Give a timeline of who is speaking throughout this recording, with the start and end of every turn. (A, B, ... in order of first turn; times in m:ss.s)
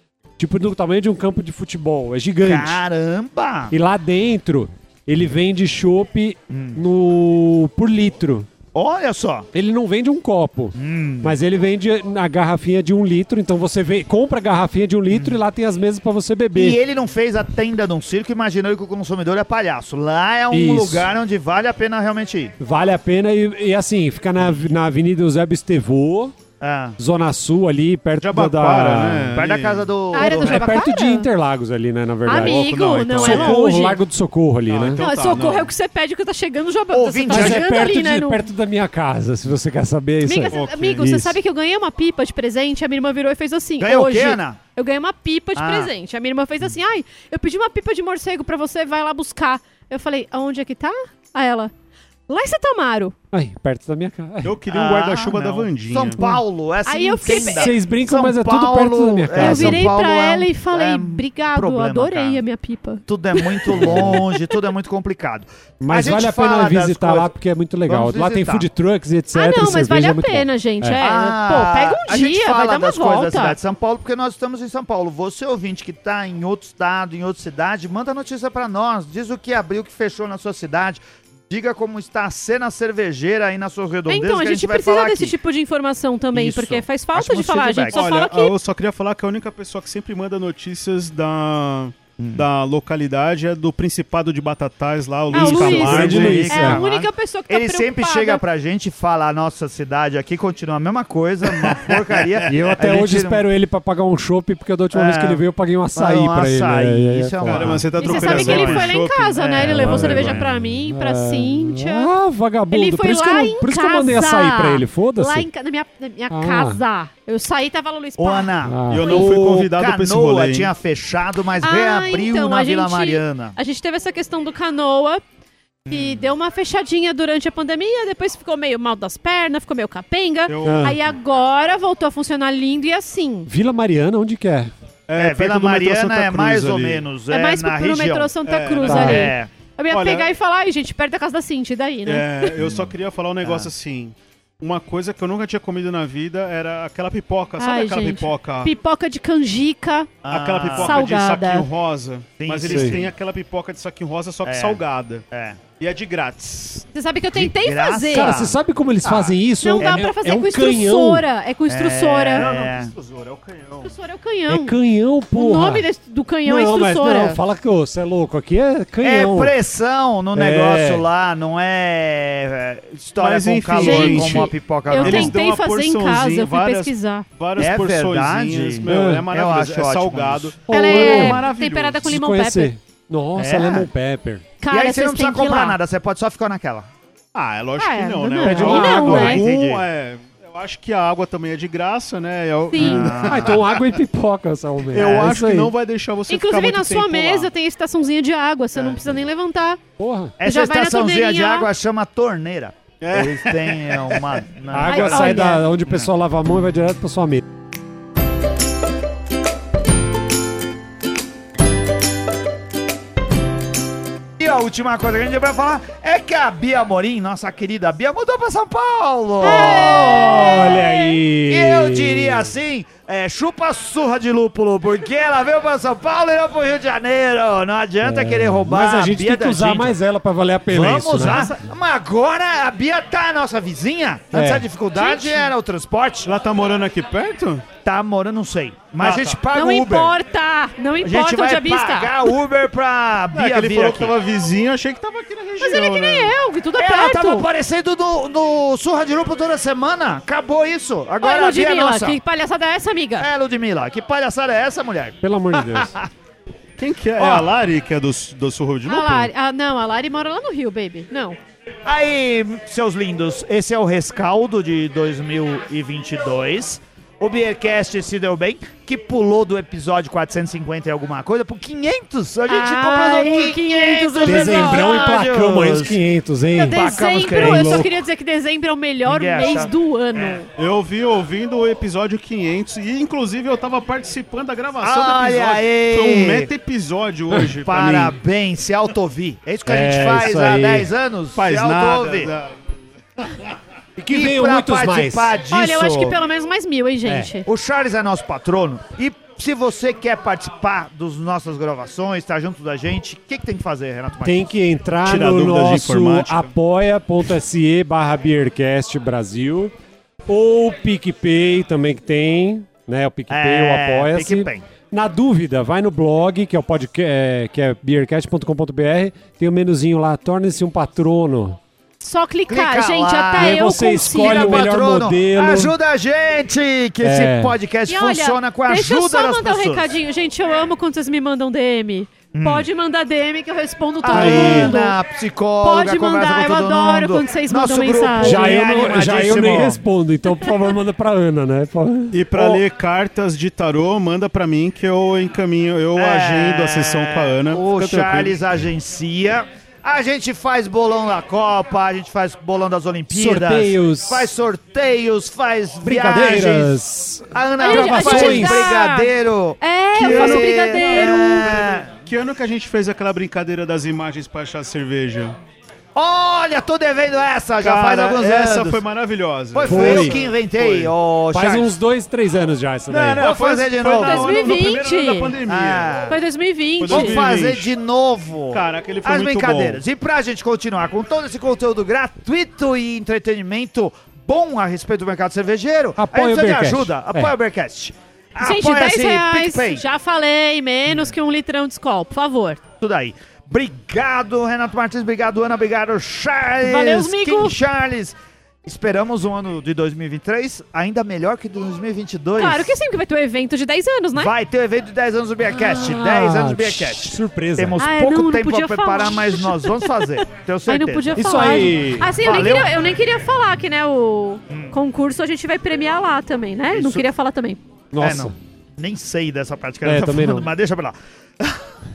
0:00.4-0:02.8 A
0:02.4-0:03.7 B
0:03.7-0:08.5 A
0:06.5-0:06.8 B
0:08.7-0:09.5 B
0:09.5-0:16.8 A
0:10.8-0:11.3 B
0:15.1-0:15.4 B
0:16.5-0:22.5 B
0:20.5-0:21.1 A
0:22.6-0:26.4 A
0:26.6-0:27.0 B
0:27.0-0:29.3 A
0:28.2-0:29.9 C
0:29.3-0:30.8 B
0:30.1-0:31.3 D
0:30.1-0:35.0 A
0:32.2-0:34.0 D
0:32.3-0:33.6 C
0:34.7-0:35.7 C
0:34.9-0:38.4 D
0:36.9-0:37.7 B
0:37.3-0:41.4 A
0:40.2-0:51.7 D
0:40.5-0:41.1 C
0:43.8-0:44.6 B
0:45.6-0:45.9 B
0:52.3-0:53.1 D
0:53.3-0:54.6 A
0:54.4-0:56.2 C
0:54.7-1:02.4 B
0:56.8-0:57.7 D
0:57.2-0:59.9 A
0:59.3-1:04.5 D
1:03.0-1:07.3 B
1:03.8-1:04.2 A
1:05.8-1:11.0 A
1:07.8-1:08.7 B
1:09.3-1:13.6 D
1:11.0-1:25.3 B
1:24.1-1:28.5 D
1:26.3-1:28.0 B
1:27.9-1:36.7 C
1:32.2-1:32.4 B
1:35.3-1:36.8 A
1:35.3-1:38.4 D
1:35.6-1:43.4 B
1:41.4-1:42.6 C
1:42.4-1:47.8 A
1:44.9-1:45.4 B
1:45.9-1:48.9 B
1:47.4-1:50.5 C
1:48.0-1:52.1 D
1:49.6-1:55.5 A
1:52.7-1:58.5 D
1:56.3-1:56.8 A
1:58.2-2:03.6 B
1:58.6-1:59.3 A
1:58.9-2:00.7 C
2:01.6-2:05.2 D
2:05.8-2:06.2 B
2:05.9-2:13.5 D
2:10.5-2:11.0 C
2:10.6-2:11.0 A
2:13.5-2:14.7 A
2:15.1-2:17.0 C
2:15.2-2:18.3 B
2:17.3-2:22.6 D
2:18.4-2:19.2 C
2:18.8-2:19.3 A
2:18.9-2:19.5 B
2:19.9-2:20.3 C
2:22.0-2:28.7 C
2:22.6-2:22.9 B
2:23.4-2:23.7 B
2:27.6-2:30.1 D
2:30.2-2:31.0 B
2:30.3-2:35.2 C
2:30.7-2:31.7 D
2:32.4-2:33.1 B
2:32.6-2:33.0 A
2:34.4-2:35.6 B
2:35.8-2:36.9 C
2:36.9-2:38.4 D
2:37.3-2:40.1 B
2:38.1-2:41.3 A
2:39.6-2:42.5 D
2:41.7-2:42.9 B
2:42.4-2:43.9 C
2:43.8-2:44.8 D
2:44.5-2:45.9 A
2:45.3-2:47.4 D
2:46.4-2:49.6 A
2:49.0-2:55.3 B
2:50.3-2:51.1 A
2:53.2-3:02.1 C
2:53.8-2:57.2 D
2:57.6-3:00.6 B
2:58.8-2:59.3 A
3:00.7-3:01.4 A
3:00.7-3:02.7 D
3:02.0-3:04.5 A
3:03.4-3:03.9 B
3:04.6-3:05.8 D
3:04.7-3:06.9 B
3:07.3-3:14.0 C
3:07.8-3:09.4 D
3:08.4-3:09.4 A
3:08.9-3:09.8 B
3:12.7-3:13.2 D
3:12.8-3:13.6 B
3:13.0-3:15.7 A
3:14.9-3:17.5 C
3:16.3-3:19.8 D
3:20.0-3:20.3 A
3:20.4-3:26.1 B
3:20.4-3:21.7 D
3:23.0-3:24.4 C
3:24.7-3:27.4 A
3:24.8-3:25.6 D
3:34.4-3:50.0 B
3:39.4-3:41.0 D
3:39.4-3:42.5 A
3:48.0-3:51.5 A
3:50.7-3:56.3 B
3:51.2-3:51.5 C
3:54.3-3:54.7 A
3:54.9-3:55.5 D
3:56.2-3:57.6 C
3:57.8-4:00.1 B
3:59.0-3:59.4 C
3:59.5-4:02.4 D
4:01.0-4:04.1 B
4:03.3-4:06.3 C
4:05.6-4:07.5 D
4:06.8-4:12.2 B
4:11.2-4:13.3 D
4:13.2-4:15.2 B
4:15.2-4:15.9 A
4:15.8-4:16.1 B
4:16.8-4:19.3 C
4:17.2-4:17.5 B
4:18.8-4:21.4 D
4:21.8-4:36.0 B
4:32.5-4:35.2 D
4:34.2-4:37.9 A
4:36.5-4:40.5 D
4:36.7-4:37.9 B
4:39.0-4:40.4 B
4:40.6-4:48.2 C
4:44.8-4:46.5 B
4:47.6-4:52.3 B
4:49.6-4:50.9 A
4:51.3-4:52.5 C
4:54.0-4:55.4 A
4:54.1-4:56.2 B
4:55.4-4:57.4 D
4:57.4-5:04.4 B
5:04.2-5:09.7 A
5:05.0-5:06.5 C
5:10.3-5:21.6 A
5:13.3-5:14.6 B
5:22.0-5:24.7 D
5:22.5-5:29.9 B
5:23.4-5:25.7 A
5:27.0-5:27.5 A
5:27.9-5:35.0 D
5:32.3-5:32.7 B
5:34.0-5:39.8 B
5:34.1-5:34.7 A
5:35.6-5:38.6 D
5:38.2-5:42.6 A
5:42.1-5:48.4 C
5:46.0-5:56.8 B
5:53.1-5:54.3 A
5:55.8-5:58.8 A
5:57.3-6:01.9 B
5:57.6-6:01.7 D
6:00.0-6:05.4 C
6:05.9-6:08.8 B
6:07.6-6:10.9 C
6:09.5-6:11.7 B
6:09.6-6:10.2 A
6:11.3-6:13.3 A
6:12.9-6:14.5 B
6:13.2-6:15.9 C
6:14.0-6:15.4 D
6:15.4-6:16.2 B
6:16.1-6:17.2 D
6:16.8-6:17.7 C
6:16.9-6:29.8 B
6:18.5-6:19.8 C
6:26.0-6:27.3 A
6:28.4-6:32.6 D
6:32.8-6:42.7 B
6:36.6-6:37.6 D
6:42.4-6:44.3 D
6:44.1-6:51.2 B
6:45.5-6:47.8 A
6:47.8-6:57.6 D
6:51.1-6:52.1 A
6:52.2-6:52.7 B
6:56.7-6:57.0 B
6:57.9-6:58.4 A
6:58.0-7:01.6 B
6:59.8-7:00.5 A